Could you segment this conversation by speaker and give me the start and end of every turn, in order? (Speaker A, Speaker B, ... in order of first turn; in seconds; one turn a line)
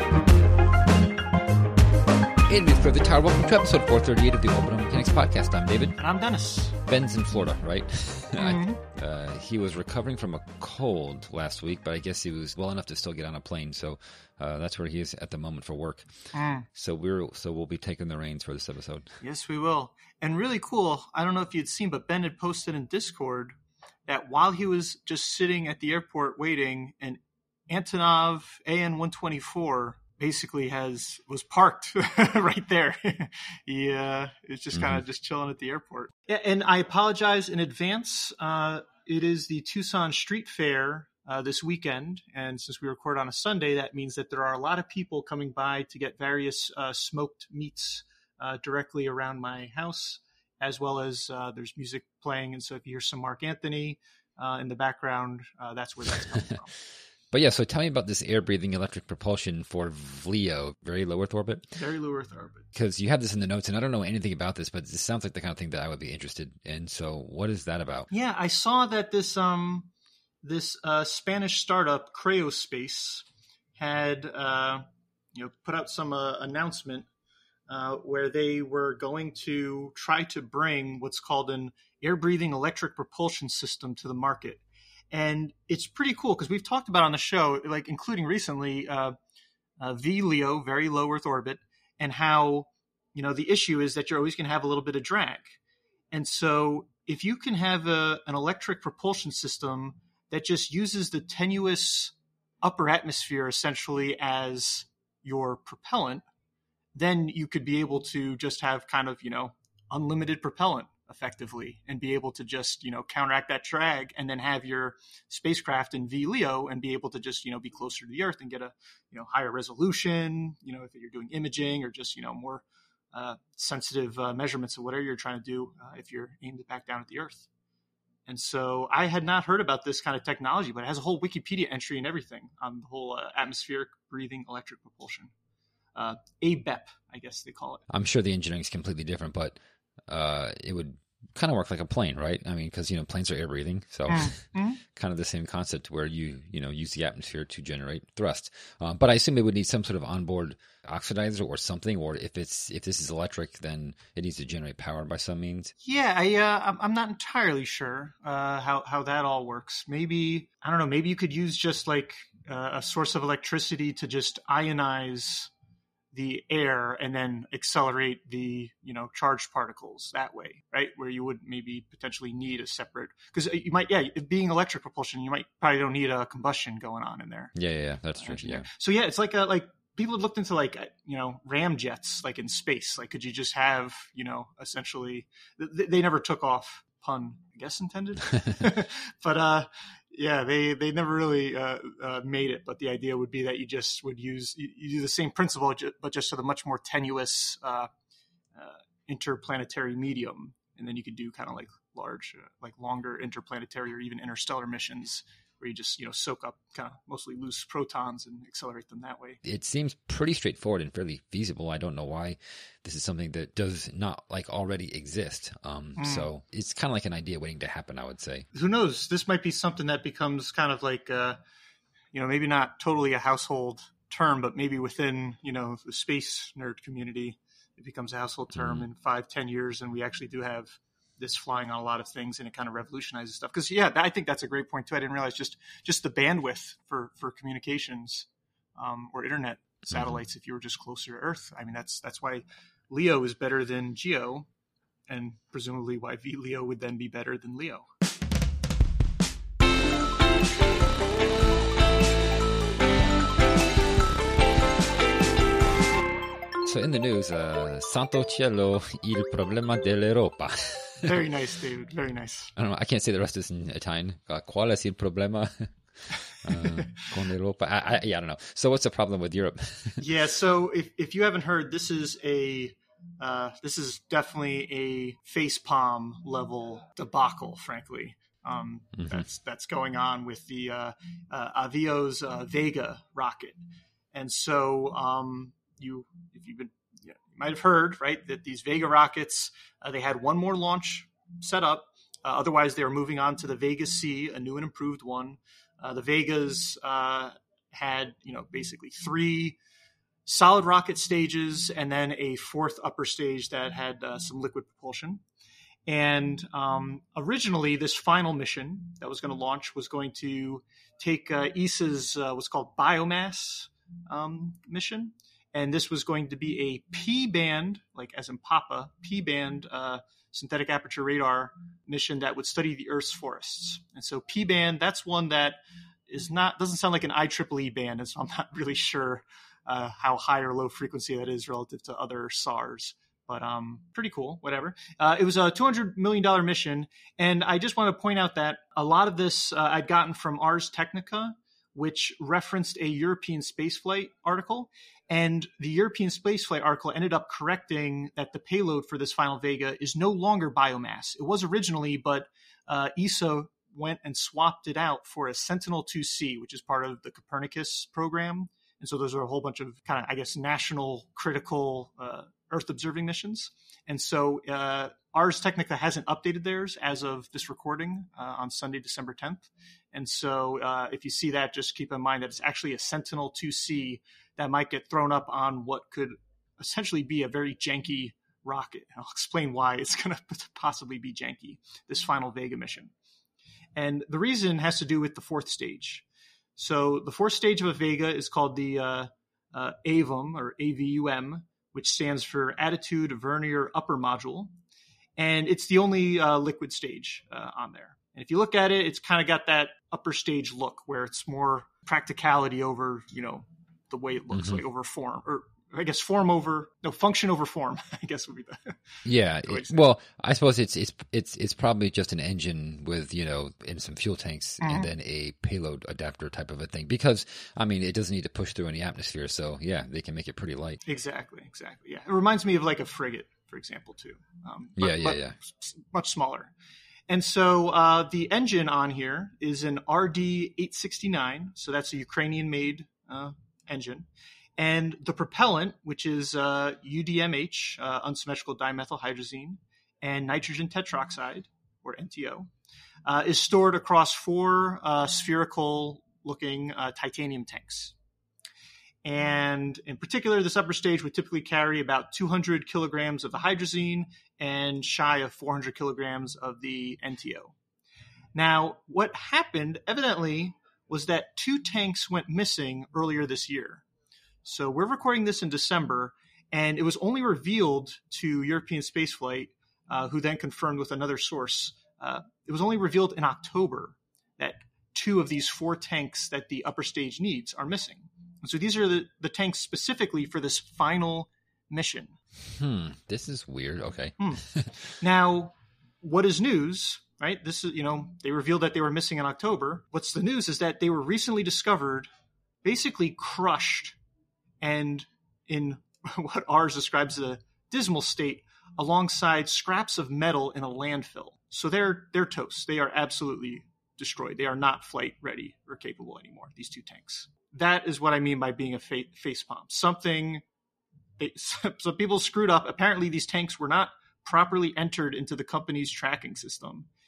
Speaker A: 2.5-6.0
Speaker B: 6.0-6.8
Speaker A: 6.8-16.1
Speaker B: 8.4-8.8
Speaker B: 16.3-16.7
Speaker A: 16.7-19.1
Speaker B: 19.2-56.7
Speaker A: 57.3-61.7
Speaker B: 61.7-62.7
Speaker A: 62.7-68.1
Speaker B: 68.1-69.9
Speaker B: 70.4-77.1
Speaker B: 77.7-89.1
Speaker B: 89.8-95.6
Speaker B: 96.1-106.2
Speaker B: 106.9-127.5
Speaker B: 128.2-135.3
Speaker B: 135.9-137.8
Speaker A: 137.9-155.7
Speaker B: 144.1-144.8
Speaker B: 155.8-165.5
Speaker B: 166.1-177.5
Speaker A: 177.6-178.7
Speaker B: 178.2-197.9
Speaker B: 198.5-209.4
Speaker A: 209.4-218.5
Speaker B: 216.0-216.3
Speaker B: 218.5-221.4
Speaker B: 222.1-244.5
Speaker A: 228.5-228.8
Speaker B: 245.1-247.8
Speaker A: 256.6-261.1
Speaker B: 261.0-262.5
Speaker A: 262.6-265.7
Speaker A: 266.4-270.0
Speaker B: 266.5-266.9
Speaker B: 270.0-283.6
Speaker A: 278.9-279.2
Speaker B: 284.1-299.6
Speaker B: 300.2-305.2
Speaker B: 305.9-382.9
Speaker B: 383.8-386.0
Speaker B: 386.6-394.5
Speaker B: 395.2-408.8
Speaker A: 404.3-404.6
Speaker A: 409.0-420.8
Speaker B: 409.5-409.8
Speaker B: 414.6-414.9
Speaker B: 420.8-426.5
Speaker A: 424.8-425.4
Speaker B: 427.1-442.5
Speaker B: 443.1-447.9
Speaker B: 449.0-457.5
Speaker B: 458.3-463.8
Speaker B: 464.4-482.2
Speaker A: 482.5-484.9
Speaker B: 484.2-484.4
Speaker B: 485.0-492.1
Speaker B: 492.6-494.0
Speaker B: 494.6-510.4
Speaker B: 511.2-516.9